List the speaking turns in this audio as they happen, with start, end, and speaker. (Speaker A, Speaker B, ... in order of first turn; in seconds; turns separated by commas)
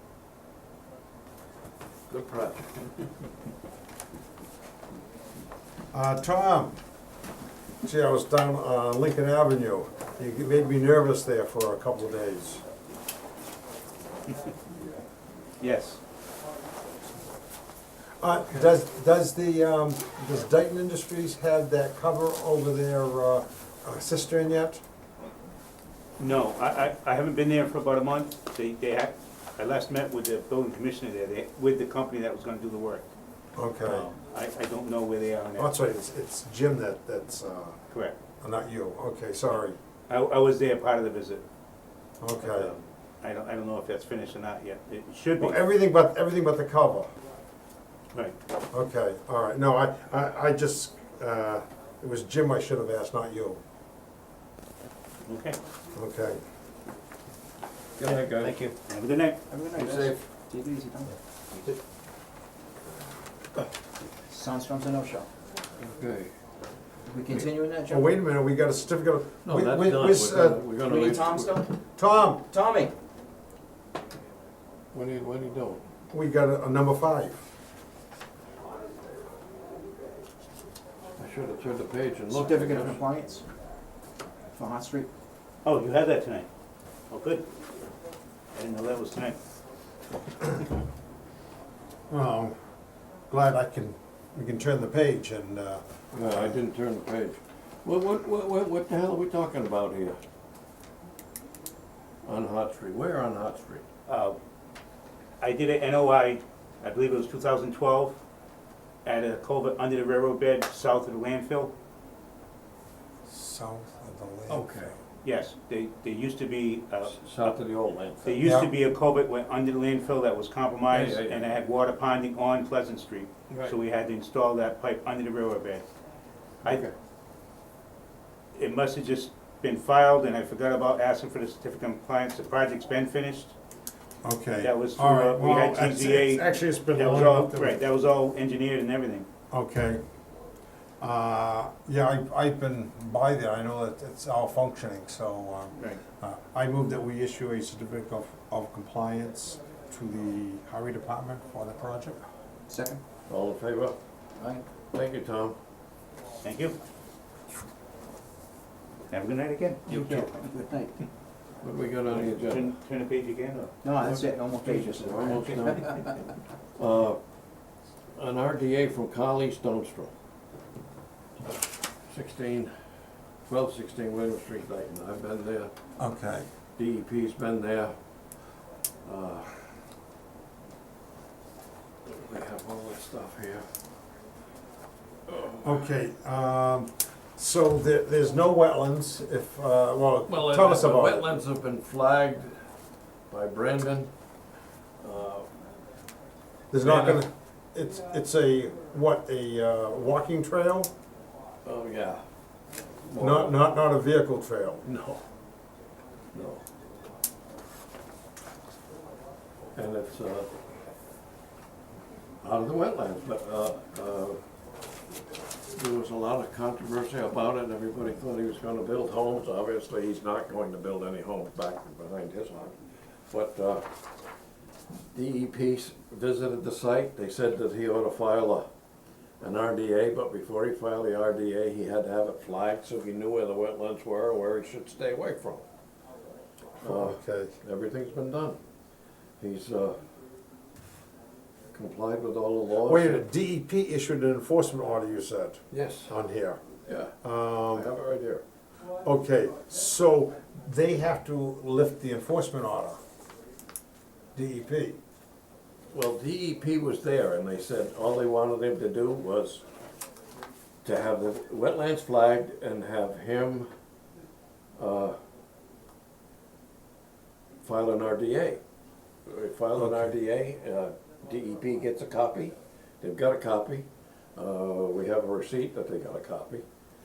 Speaker A: 2.1-2.8, Speaker B: 5.9-6.8, Speaker B: 7.8-12.6, Speaker C: 15.6-16.0, Speaker B: 18.2-24.8, Speaker C: 26.2-33.1, Speaker B: 33.6-34.1, Speaker C: 33.9-35.7, Speaker B: 35.6-37.8, Speaker B: 38.4-39.8, Speaker C: 40.1-41.4, Speaker B: 42.2-42.7, Speaker C: 42.4-45.6, Speaker B: 45.4-47.1, Speaker B: 48.7-53.6, Speaker C: 55.3-55.6, Speaker B: 55.9-56.4, Speaker A: 58.0-58.6, Speaker C: 58.1-59.4, Speaker D: 59.5-61.6, Speaker A: 59.8-60.2, Speaker D: 64.3-65.3, Speaker A: 65.8-66.3, Speaker D: 67.0-68.1, Speaker B: 67.9-70.6, Speaker A: 69.4-71.6, Speaker D: 70.8-71.7, Speaker B: 72.0-72.4, Speaker D: 72.5-72.9, Speaker A: 74.9-75.8, Speaker B: 76.1-77.4, Speaker A: 81.2-83.0, Speaker D: 82.3-83.5, Speaker D: 84.5-85.1, Speaker C: 85.6-86.5, Speaker C: 87.1-87.5, Speaker C: 88.5-89.4, Speaker B: 92.1-92.5, Speaker B: 93.3-96.6, Speaker A: 96.1-100.2, Speaker A: 102.2-103.8, Speaker C: 104.1-104.4, Speaker C: 105.4-108.2, Speaker C: 109.0-111.7, Speaker B: 113.3-115.0, Speaker A: 114.5-114.9, Speaker C: 115.2-117.6, Speaker A: 117.0-118.4, Speaker C: 118.2-125.9, Speaker B: 118.4-118.7, Speaker A: 120.9-121.5, Speaker A: 123.5-123.8, Speaker A: 126.6-126.9, Speaker C: 128.6-133.5, Speaker B: 134.2-137.8, Speaker C: 134.6-139.3, Speaker B: 139.5-140.0, Speaker B: 141.0-152.2, Speaker D: 152.7-153.0, Speaker A: 153.3-154.0, Speaker D: 154.4-154.7, Speaker A: 154.9-155.6, Speaker C: 156.4-156.8, Speaker C: 159.1-160.3, Speaker D: 159.9-161.0, Speaker A: 160.0-160.3, Speaker A: 161.6-162.8, Speaker C: 162.1-163.9, Speaker D: 163.8-166.1, Speaker A: 164.0-166.1, Speaker A: 166.8-167.2, Speaker A: 168.1-170.1, Speaker A: 172.1-172.7, Speaker A: 173.5-175.7, Speaker B: 176.0-176.5, Speaker A: 176.8-178.0, Speaker A: 179.0-179.6, Speaker A: 182.1-183.7, Speaker A: 185.3-185.9, Speaker B: 185.6-191.3, Speaker A: 190.3-192.6, Speaker A: 193.3-194.1, Speaker A: 195.0-195.5, Speaker B: 196.7-200.9, Speaker A: 196.8-197.3, Speaker A: 201.6-202.2, Speaker A: 203.0-203.6, Speaker B: 203.2-204.8, Speaker A: 204.8-205.2, Speaker A: 206.3-206.6, Speaker A: 209.8-210.5, Speaker A: 212.4-214.4, Speaker A: 215.7-222.8, Speaker A: 223.3-223.9, Speaker A: 225.1-228.7, Speaker A: 229.4-235.7, Speaker A: 236.8-238.6, Speaker B: 236.8-237.6, Speaker A: 239.4-240.0, Speaker A: 241.7-243.2, Speaker B: 242.8-246.6, Speaker A: 245.7-246.2, Speaker A: 246.8-248.4, Speaker B: 247.2-247.9, Speaker B: 249.0-253.0, Speaker B: 254.3-255.0, Speaker A: 255.9-259.6, Speaker A: 260.8-263.7, Speaker A: 264.8-265.2, Speaker A: 267.6-268.6, Speaker A: 269.3-276.6, Speaker B: 269.8-270.1